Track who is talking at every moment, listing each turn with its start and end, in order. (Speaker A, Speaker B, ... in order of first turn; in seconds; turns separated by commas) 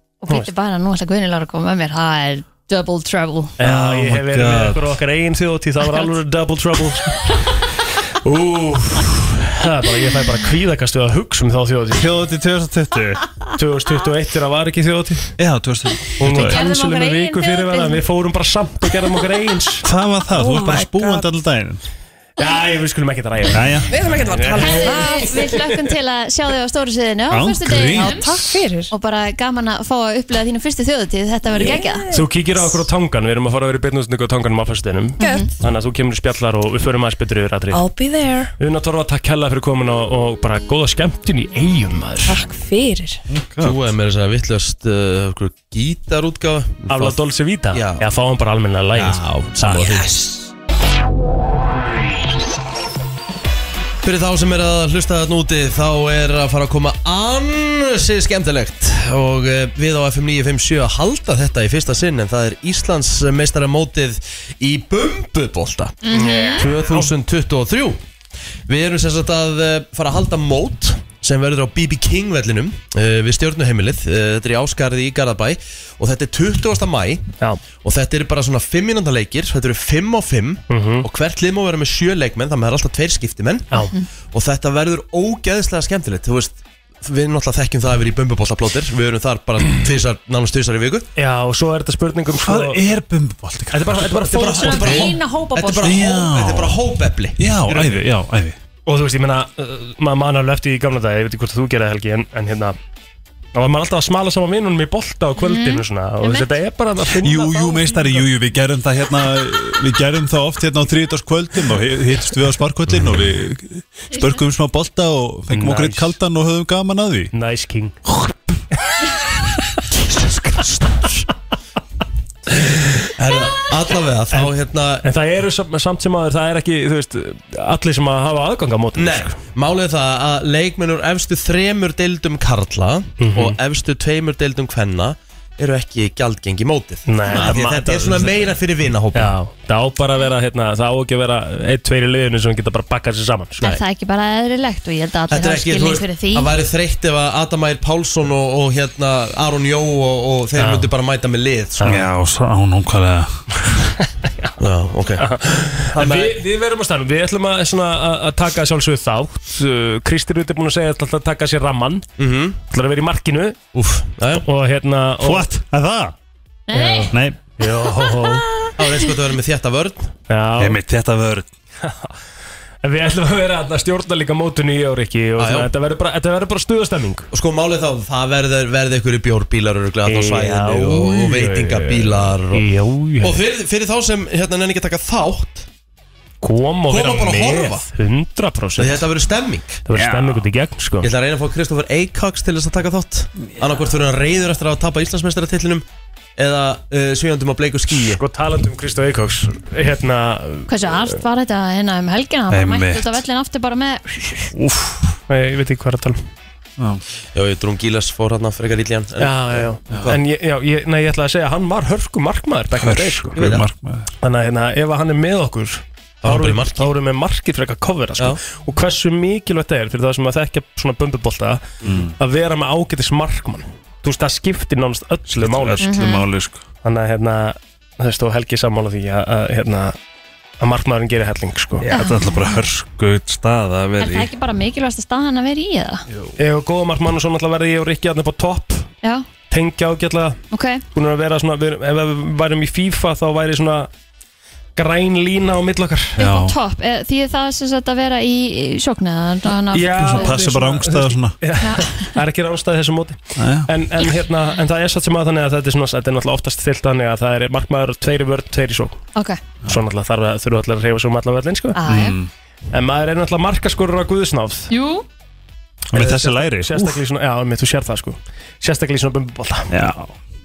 Speaker A: 0.2-3.5, Speaker B: 3.6-7.3, Speaker C: 3.6-4.9, Speaker B: 8.2-12.1, Speaker C: 11.9-13.4, Speaker B: 13.5-15.3, Speaker C: 15.4-16.6, Speaker B: 16.2-19.8, Speaker A: 16.3-18.0, Speaker C: 19.8-21.8, Speaker D: 20.3-21.3, Speaker B: 22.4-25.7, Speaker C: 23.5-23.9, Speaker D: 23.9-25.2, Speaker A: 24.5-28.3, Speaker C: 27.3-28.5, Speaker D: 27.9-28.9, Speaker A: 28.9-32.1, Speaker D: 31.5-32.3, Speaker B: 32.1-37.8, Speaker A: 35.2-35.5, Speaker D: 35.2-35.5, Speaker D: 37.7-38.5, Speaker B: 38.6-42.4, Speaker D: 42.2-43.2, Speaker C: 43.3-43.9, Speaker E: 43.6-48.1, Speaker B: 46.9-50.1, Speaker E: 48.9-50.2, Speaker E: 54.0-66.0, Speaker A: 66.0-66.7, Speaker B: 66.1-67.1, Speaker E: 66.5-68.0, Speaker E: 68.7-77.3, Speaker E: 77.8-83.7, Speaker B: 80.7-81.1, Speaker E: 84.3-91.1, Speaker B: 91.2-92.8, Speaker C: 92.4-94.2, Speaker B: 93.7-95.0, Speaker E: 94.2-97.8, Speaker A: 94.3-96.0, Speaker C: 94.7-95.1, Speaker C: 95.8-96.8, Speaker C: 97.4-98.6, Speaker B: 98.8-102.8, Speaker B: 103.5-107.7, Speaker A: 105.4-106.5, Speaker C: 107.2-117.3, Speaker A: 107.6-108.2, Speaker B: 115.5-116.2, Speaker B: 117.3-118.3, Speaker E: 123.1-125.0, Speaker B: 125.0-129.4, Speaker E: 128.9-139.3, Speaker B: 133.2-133.6, Speaker B: 137.1-138.4, Speaker B: 139.1-143.7, Speaker A: 143.6-146.5, Speaker E: 145.3-152.0, Speaker B: 150.6-150.9, Speaker B: 151.8-152.1, Speaker C: 151.8-153.9, Speaker E: 154.6-155.3, Speaker B: 155.2-162.1, Speaker E: 156.0-156.2, Speaker C: 156.0-156.3, Speaker E: 162.2-162.6, Speaker B: 162.7-163.6, Speaker E: 163.7-164.4, Speaker B: 164.3-165.5, Speaker C: 165.2-166.2, Speaker A: 166.7-167.1, Speaker B: 166.7-168.4, Speaker C: 167.1-167.4, Speaker A: 168.1-168.7, Speaker E: 168.8-170.1, Speaker B: 170.3-170.8, Speaker C: 170.6-171.5, Speaker B: 171.8-172.1, Speaker B: 172.8-177.3, Speaker E: 175.4-175.7, Speaker E: 177.3-182.6, Speaker B: 180.1-183.4, Speaker E: 183.2-185.7, Speaker B: 186.4-189.1, Speaker E: 186.9-187.9, Speaker E: 188.8-189.8, Speaker B: 189.9-191.1, Speaker C: 189.9-190.4, Speaker E: 191.0-195.8, Speaker E: 196.4-198.2, Speaker B: 198.0-201.2, Speaker A: 200.7-204.5, Speaker C: 202.5-203.2, Speaker C: 204.5-205.2, Speaker B: 205.3-206.2, Speaker E: 207.3-210.2, Speaker B: 209.2-213.3, Speaker C: 212.8-214.1, Speaker E: 213.3-213.7, Speaker B: 214.2-221.6, Speaker E: 216.2-216.9, Speaker C: 221.8-222.1, Speaker B: 222.2-225.8, Speaker C: 225.3-226.6, Speaker A: 225.8-226.2, Speaker B: 226.8-229.9, Speaker B: 230.6-231.9, Speaker C: 231.8-234.3, Speaker A: 231.9-232.6, Speaker A: 234.0-236.0, Speaker C: 236.1-236.3, Speaker B: 236.4-238.9, Speaker B: 239.5-240.4, Speaker A: 240.5-240.8, Speaker B: 240.9-243.9, Speaker B: 244.8-246.1, Speaker C: 246.2-246.6, Speaker A: 246.2-250.4, Speaker B: 249.7-259.0, Speaker C: 250.0-251.3, Speaker A: 251.6-252.1, Speaker C: 253.4-253.7, Speaker A: 259.1-259.4, Speaker B: 259.7-261.8, Speaker A: 261.7-262.2, Speaker C: 261.9-262.3, Speaker B: 262.7-264.7, Speaker A: 264.7-265.0, Speaker C: 265.9-267.0, Speaker B: 265.9-269.8, Speaker C: 269.7-270.1